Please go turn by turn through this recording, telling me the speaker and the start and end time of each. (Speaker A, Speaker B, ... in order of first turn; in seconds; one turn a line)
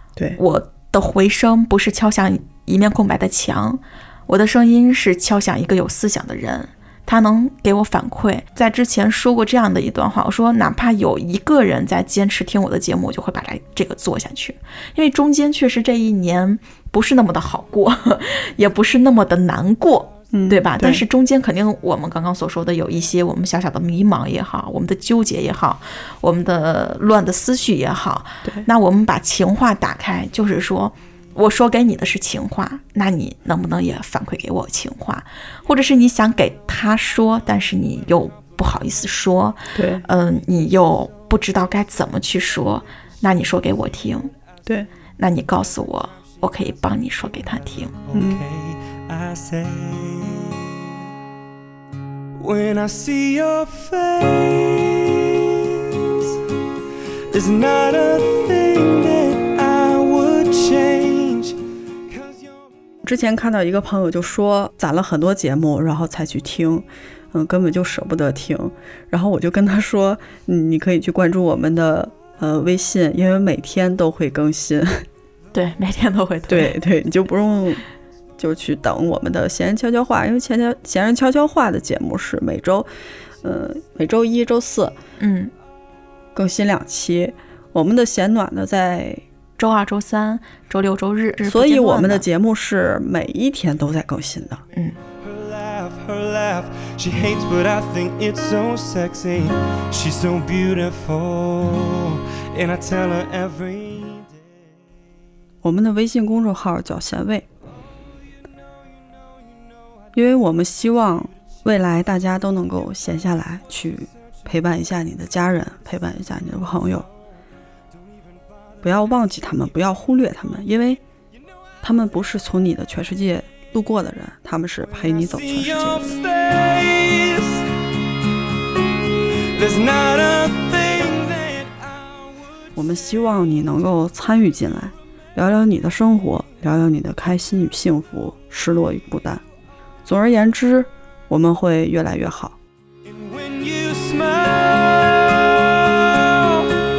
Speaker A: 0.4-44.3
Speaker B: 20.3-21.0
Speaker B: 39.7-40.0
Speaker A: 45.2-48.0
Speaker C: 48.0-50.8
Speaker B: 48.1-48.4
Speaker C: 52.4-56.3
Speaker C: 57.3-61.5
Speaker C: 62.1-62.5
Speaker B: 63.0-75.0
Speaker A: 75.5-76.8
Speaker B: 76.5-77.8
Speaker B: 78.4-82.9
Speaker B: 83.4-85.0
Speaker A: 85.2-85.5
Speaker B: 86.3-89.2
Speaker A: 89.6-92.2
Speaker B: 91.4-94.6
Speaker C: 95.2-104.4
Speaker B: 105.6-107.5
Speaker B: 110.1-117.1
Speaker B: 118.8-121.0
Speaker B: 121.8-126.2
Speaker C: 125.1-127.7
Speaker C: 129.5-132.3
Speaker B: 132.8-139.4
Speaker B: 140.1-142.6
Speaker C: 143.0-146.7